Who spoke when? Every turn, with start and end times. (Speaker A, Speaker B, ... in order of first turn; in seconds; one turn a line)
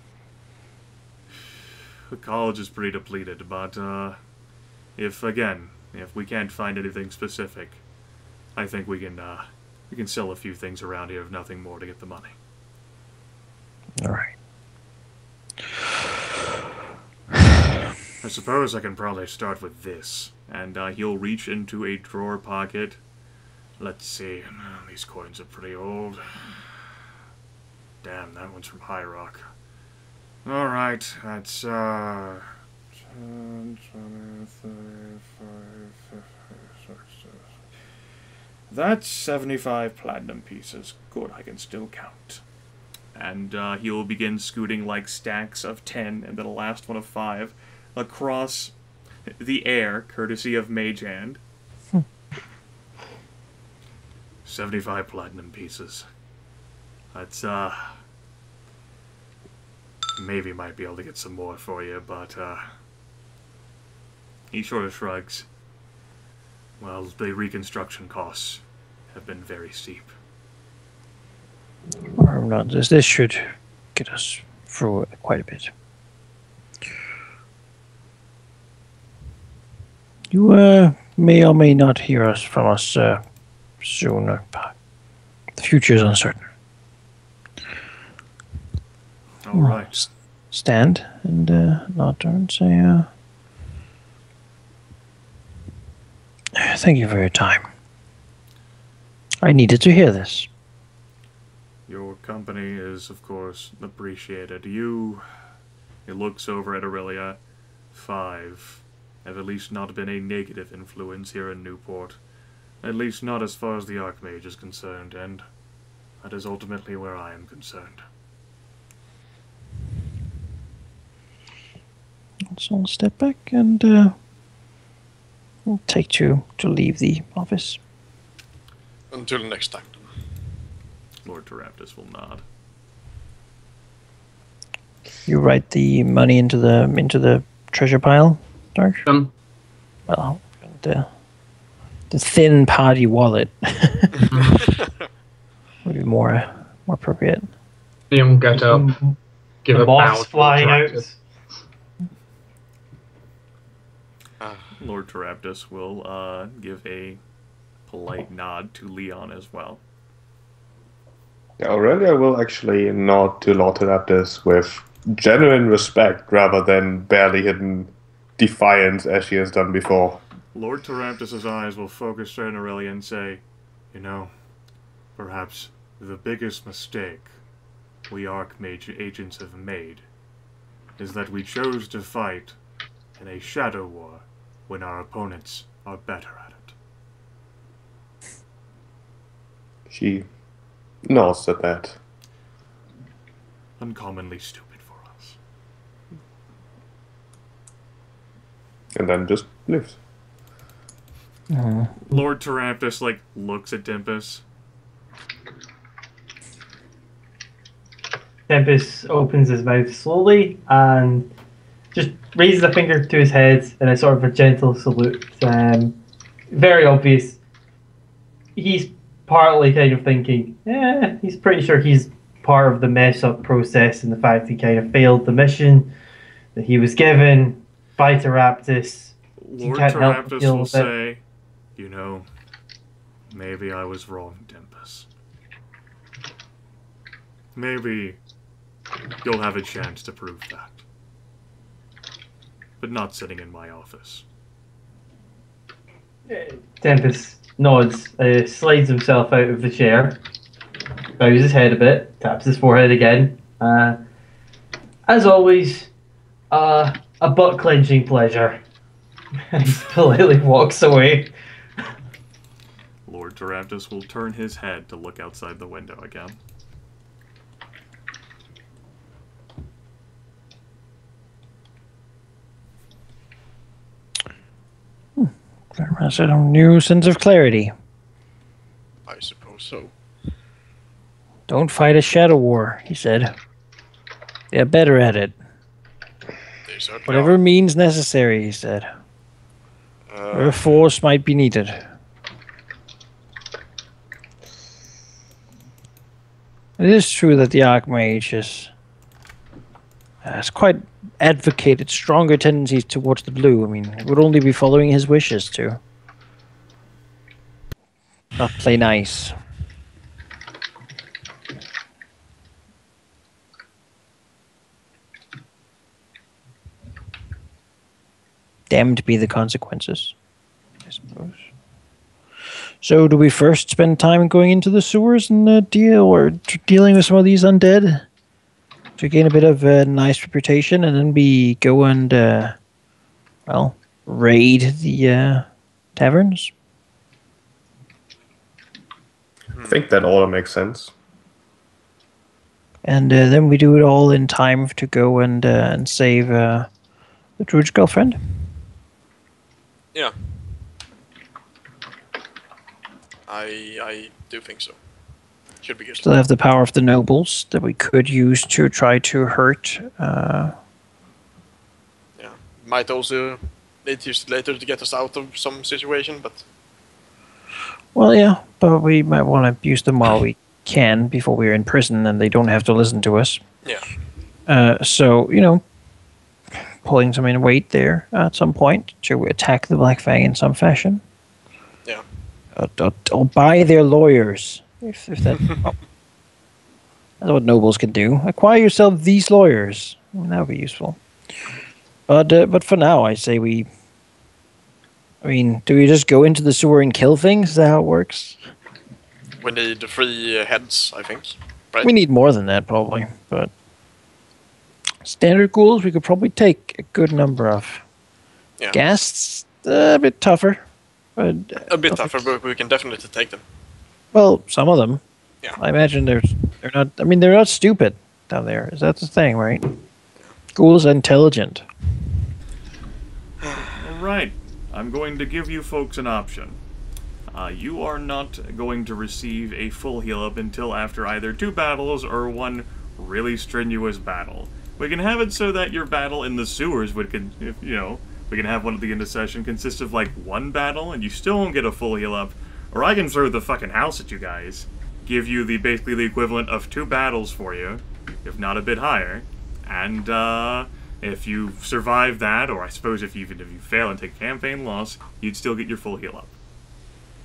Speaker A: 2.1-4.2
Speaker A: 5.0-7.8
Speaker A: 8.6-12.3
Speaker B: 14.0-14.3
Speaker A: 18.2-23.0
Speaker A: 23.8-26.6
Speaker A: 28.0-29.5
Speaker A: 30.4-32.5
Speaker A: 33.0-37.4
Speaker A: 38.7-42.4
Speaker A: 43.1-48.7
Speaker A: 49.4-51.4
Speaker A: 54.4-56.0
Speaker A: 57.1-58.0
Speaker A: 60.2-62.6
Speaker A: 64.5-65.5
Speaker A: 66.8-70.1
Speaker B: 72.2-75.7
Speaker B: 80.3-83.2
Speaker B: 83.8-84.7
Speaker B: 85.5-86.5
Speaker A: 89.4-90.1
Speaker B: 90.5-93.1
Speaker B: 96.5-97.7
Speaker B: 99.4-100.5
Speaker A: 101.9-105.2
Speaker A: 106.0-107.4
Speaker A: 107.9-112.2
Speaker A: 112.8-115.4
Speaker A: 116.2-118.0
Speaker B: 122.5-124.1
Speaker B: 125.7-127.8
Speaker C: 129.1-130.1
Speaker A: 131.2-132.4
Speaker B: 135.3-139.0
Speaker D: 139.1-139.3
Speaker B: 140.1-141.1
Speaker B: 142.1-144.1
Speaker D: 144.3-144.6
Speaker B: 145.8-147.5
Speaker D: 148.1-148.9
Speaker D: 149.6-151.0
Speaker E: 149.7-151.2
Speaker C: 154.4-154.7
Speaker A: 154.8-157.2
Speaker A: 157.9-159.8
Speaker F: 161.6-170.2
Speaker A: 170.5-174.3
Speaker A: 175.2-177.4
Speaker A: 178.1-180.1
Speaker A: 181.0-182.6
Speaker A: 183.2-186.7
Speaker F: 189.9-190.3
Speaker F: 191.1-192.0
Speaker A: 193.8-195.4
Speaker F: 198.9-200.0
Speaker B: 201.5-201.9
Speaker A: 202.1-204.4
Speaker E: 208.5-211.3
Speaker E: 211.9-216.0
Speaker E: 216.5-217.4
Speaker E: 218.6-225.9
Speaker E: 226.5-230.9
Speaker A: 229.4-231.2
Speaker A: 231.8-232.3
Speaker A: 233.3-235.1
Speaker A: 237.6-238.2
Speaker A: 239.2-240.8
Speaker A: 242.8-244.2
Speaker E: 246.3-250.2
Speaker E: 251.2-254.0
Speaker E: 255.1-255.9
Speaker E: 256.5-258.6
Speaker E: 259.5-261.3
Speaker A: 263.1-266.4
Speaker B: 275.2-277.7
Speaker C: 279.0-279.9
Speaker B: 281.5-283.3
Speaker B: 284.5-285.4
Speaker C: 286.6-287.4
Speaker B: 287.1-288.9
Speaker C: 290.1-290.6
Speaker B: 290.3-291.9
Speaker B: 296.8-298.7
Speaker B: 300.2-305.8
Speaker B: 308.4-309.3
Speaker B: 318.7-320.1
Speaker B: 320.9-321.5
Speaker B: 322.8-328.0
Speaker B: 329.0-332.5
Speaker B: 333.4-336.5
Speaker F: 339.6-340.9
Speaker B: 342.8-346.7
Speaker B: 347.4-348.2
Speaker C: 353.3-354.8
Speaker C: 355.6-356.0
Speaker B: 356.0-360.5
Speaker C: 362.1-366.4
Speaker B: 367.9-373.4
Speaker B: 374.5-375.6
Speaker B: 376.8-381.0
Speaker B: 382.5-385.8
Speaker B: 387.2-391.0
Speaker B: 392.1-393.7
Speaker B: 395.2-398.4
Speaker C: 399.4-401.9
Speaker B: 401.8-403.5
Speaker B: 405.0-407.8
Speaker B: 408.7-410.6
Speaker B: 411.1-412.3
Speaker C: 411.7-413.4
Speaker B: 414.1-415.0
Speaker B: 415.6-419.8
Speaker B: 420.5-421.6
Speaker A: 423.6-426.6
Speaker A: 427.3-456.4